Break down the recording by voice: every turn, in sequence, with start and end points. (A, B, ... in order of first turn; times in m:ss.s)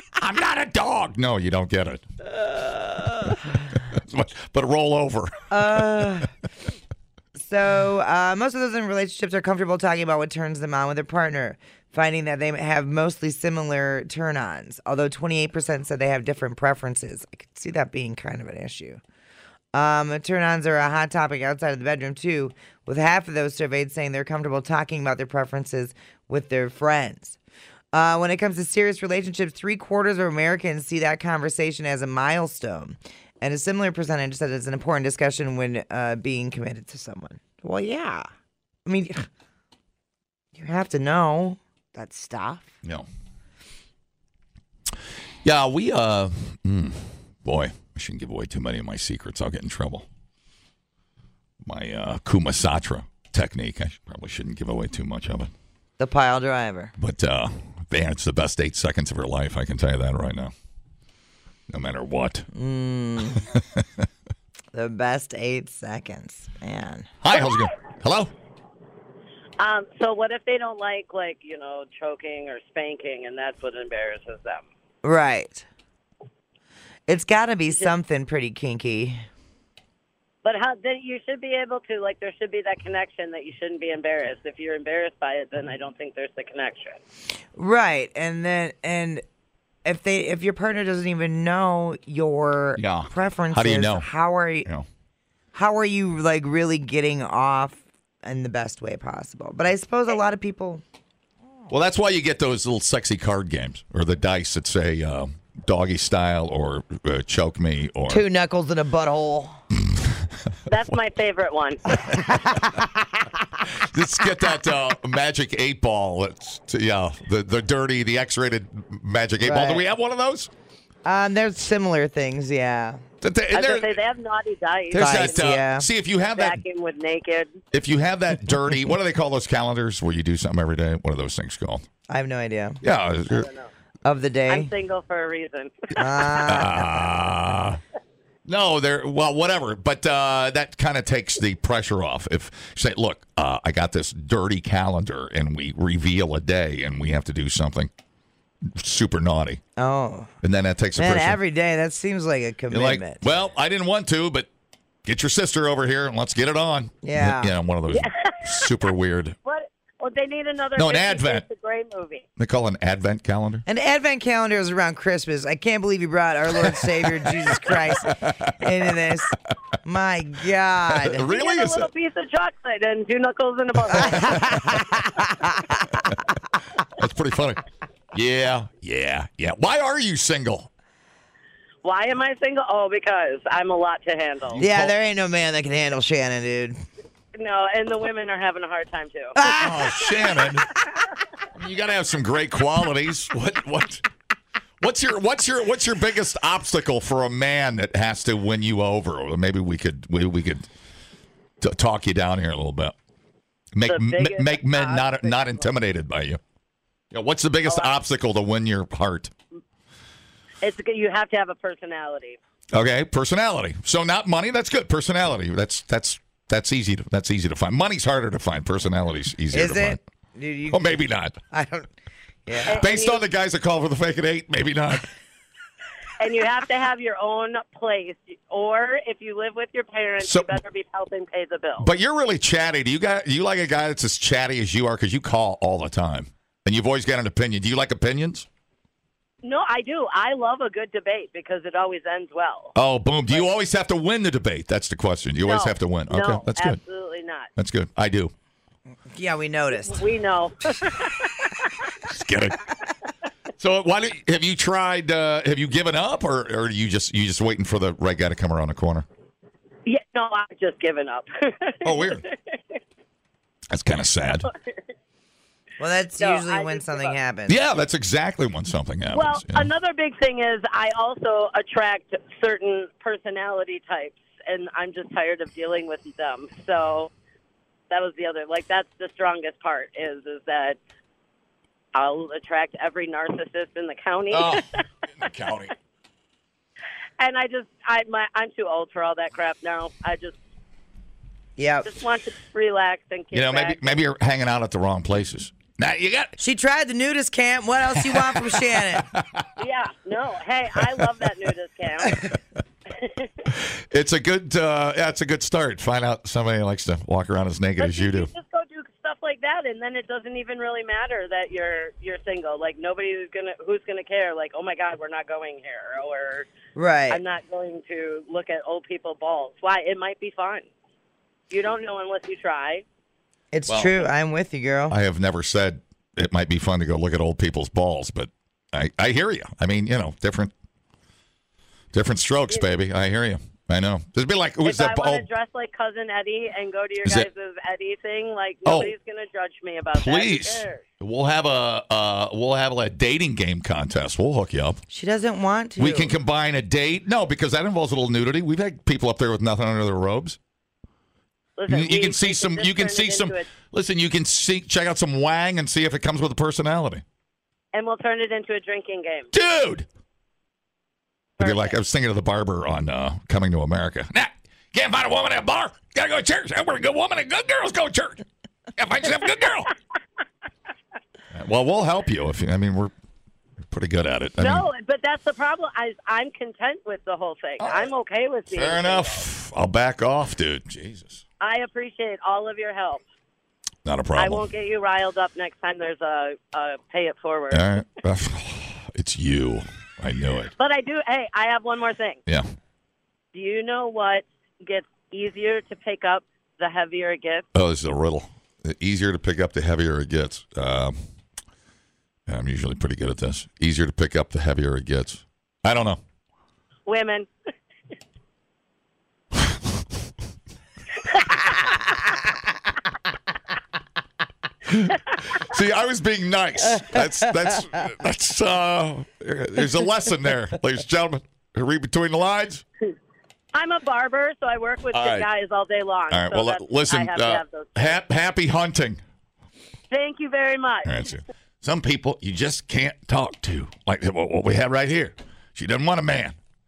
0:00.2-0:02.0 A
0:03.7-0:05.4 A
0:05.5-0:06.3 B
0:07.4-0:19.0 B
0:19.7-0:27.4 B
0:27.9-0:38.3 B
0:38.8-0:39.2 B
0:40.5-0:42.7 B
0:42.8-0:43.1 A
0:45.4-0:50.0 A
0:51.6-0:55.5 A
0:56.0-0:56.9 B
0:57.0-1:00.5 A
1:01.7-1:02.5 A
1:02.5-1:03.4 B
1:03.3-1:03.8 A
1:04.7-1:07.1 B
1:07.2-1:08.3 A
1:09.6-1:14.6 C
1:15.0-1:15.6 B
1:17.1-1:19.2 B
1:20.4-1:27.0 C
1:27.5-1:29.2 B
1:29.8-1:34.7 B
1:32.8-1:34.1 A
1:35.5-1:40.8 B
1:41.7-1:48.2 A
1:48.1-1:49.6 B
1:49.9-1:50.2 A
1:50.7-1:51.8 C
1:52.0-1:53.1 B
1:53.7-2:00.5 A
1:59.4-1:59.8 B
2:01.0-2:03.0 B
2:03.2-2:04.0 A
2:03.5-2:05.4 C
2:04.9-2:06.6 A
2:05.0-2:05.9 B
2:06.3-2:07.6 C
2:07.7-2:11.8 A
2:12.1-2:12.8 B
2:12.8-2:13.5 A
2:13.3-2:13.7 C
2:14.0-2:14.7 B
2:14.5-2:15.8 C
2:15.9-2:16.9 B
2:16.1-2:17.8 A
2:18.4-2:27.9 A
2:28.7-2:29.6 A
2:29.8-2:30.3 B
2:30.4-2:31.4 A
2:31.0-2:33.2 B
2:32.7-2:34.5 A
2:35.0-2:39.4 A
2:37.0-2:37.5 B
2:37.9-2:38.3 C
2:39.4-2:42.2 C
2:40.8-2:41.4 A
2:42.4-2:43.6 A
2:43.7-2:51.3 B
2:47.8-2:48.7 A
2:50.9-2:51.9 A
2:51.3-2:54.8 C
2:53.9-2:56.1 B
2:56.9-2:57.6 A
2:58.1-3:00.7 A
3:01.8-3:04.6 C
3:04.5-3:04.9 A
3:04.6-3:06.8 B
3:07.4-3:09.4 C
3:09.4-3:10.1 B
3:09.4-3:10.7 A
3:11.5-3:14.0 A
3:14.8-3:20.7 A
3:21.6-3:22.9 A
3:23.7-3:26.4 A
3:23.8-3:25.7 C
3:27.1-3:29.3 A
3:27.6-3:27.9 C
3:30.6-3:32.4 C
3:32.7-3:40.0 A
3:39.5-3:41.0 B
3:40.7-3:41.4 A
3:41.5-3:41.9 B
3:42.4-3:42.8 B
3:42.7-3:43.2 C
3:42.7-3:45.1 A
3:46.2-3:51.9 C
3:50.2-3:50.6 A
3:51.8-3:58.5 A
3:59.4-4:02.7 C
4:02.7-4:06.8 A
4:05.4-4:07.5 C
4:07.6-4:08.3 A
4:09.1-4:10.0 B
4:09.8-4:11.5 C
4:12.1-4:12.6 A
4:13.6-4:19.0 A
4:19.8-4:22.6 C
4:21.8-4:22.2 A
4:23.7-4:24.5 A
4:25.8-4:27.6 B
4:26.2-4:27.2 C
4:27.5-4:29.7 A
4:29.1-4:37.1 C
4:37.9-4:40.8 C
4:41.9-4:44.7 C
4:44.3-4:45.7 A
4:47.2-4:50.4 C
4:51.6-4:51.9 B
4:51.8-4:54.0 C
4:53.3-4:56.4 A
4:56.4-4:59.1 B
4:58.0-4:59.5 A
4:59.6-5:02.4 C
5:02.9-5:03.3 C
5:03.5-5:08.3 A
5:07.8-5:16.5 C
5:16.7-5:17.2 B
5:17.1-5:20.7 C
5:21.5-5:22.8 C
5:23.5-5:24.9 B
5:23.7-5:24.1 A
5:24.9-5:30.5 A
5:31.9-5:35.3 A
5:34.6-5:40.8 C
5:38.6-5:38.9 A
5:39.9-5:44.8 A
5:44.9-5:46.1 B
5:45.8-5:50.4 A
5:51.6-5:53.5 C
5:51.7-5:57.0 A
5:57.7-5:59.3 C
5:59.3-5:59.9 A
6:01.4-6:01.7 C
6:01.4-6:08.2 A
6:08.8-6:09.7 A
6:11.3-6:12.9 A
6:13.7-6:14.7 A
6:14.4-6:19.2 C
6:17.6-6:17.9 A
6:18.5-6:21.2 A
6:21.4-6:23.0 C
6:23.8-6:24.5 A
6:24.2-6:27.7 C
6:27.5-6:30.5 A
6:30.6-6:32.2 C
6:33.3-6:37.4 C
6:37.5-6:41.0 A
6:42.3-6:46.0 A
6:46.9-6:47.3 C
6:49.3-6:49.8 A
6:54.6-7:02.6 A
7:03.5-7:08.0 C
7:04.9-7:05.3 A
7:06.1-7:09.0 A
7:09.9-7:10.9 C
7:10.8-7:16.4 A